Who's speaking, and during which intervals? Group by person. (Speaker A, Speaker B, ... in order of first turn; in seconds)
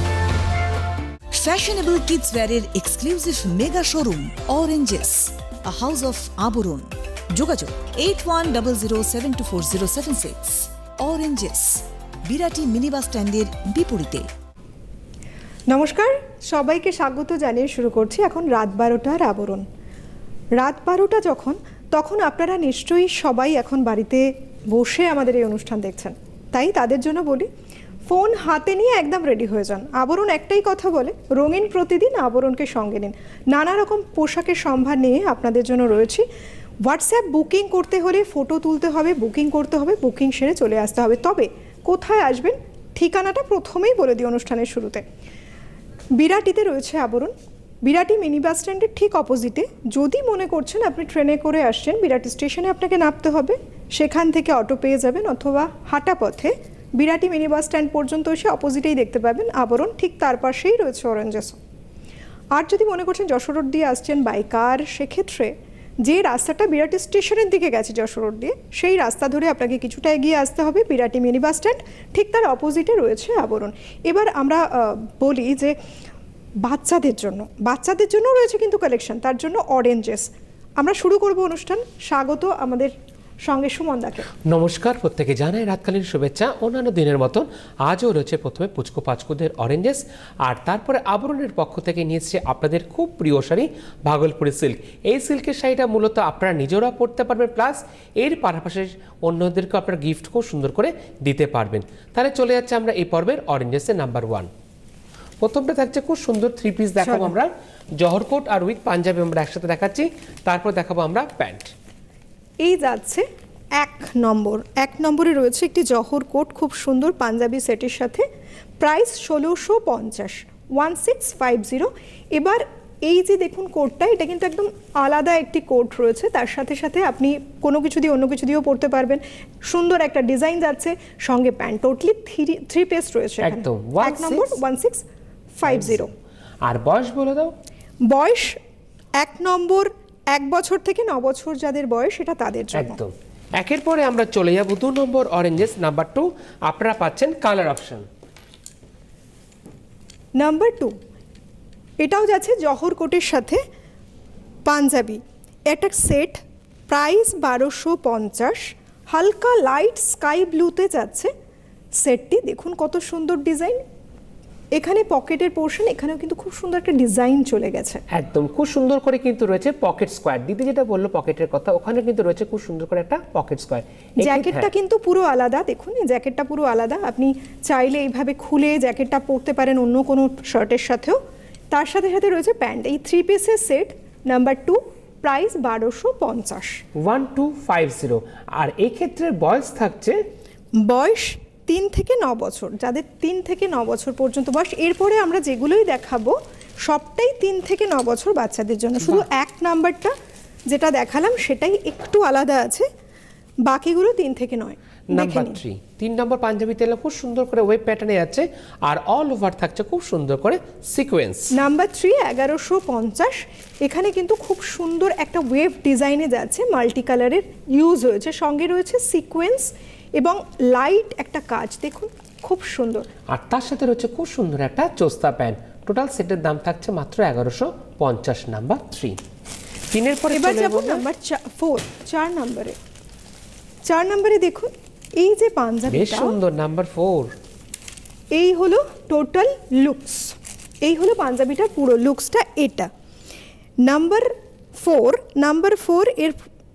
Speaker A: 1.3-14.2
Speaker B: 15.7-19.6, 20.6-27.5, 28.1-36.2, 36.8-45.0, 46.1-47.3, 47.8-61.6, 62.5-75.8, 76.6-82.9, 83.4-84.3, 107.0-107.3, 112.6-118.2, 118.8-135.0, 135.6-136.1, 138.1-138.6, 139.2-143.0, 150.4-150.9, 152.0-153.6, 154.7-161.3, 162.0-163.8, 164.7-168.0, 174.2-181.2, 181.7-186.8, 190.8-200.1, 200.7-202.9, 203.7-205.6, 211.5-223.1, 230.3-232.8, 233.8-236.3, 238.3-242.9, 243.8-246.4
Speaker C: 84.4-104.5, 105.4-111.7, 133.4-134.6, 135.6-136.1, 136.6-137.5, 142.7-148.1, 168.1-174.7, 186.9-190.2, 199.0-199.2, 205.1-211.5, 223.3-229.2, 229.9-231.0, 235.9-237.3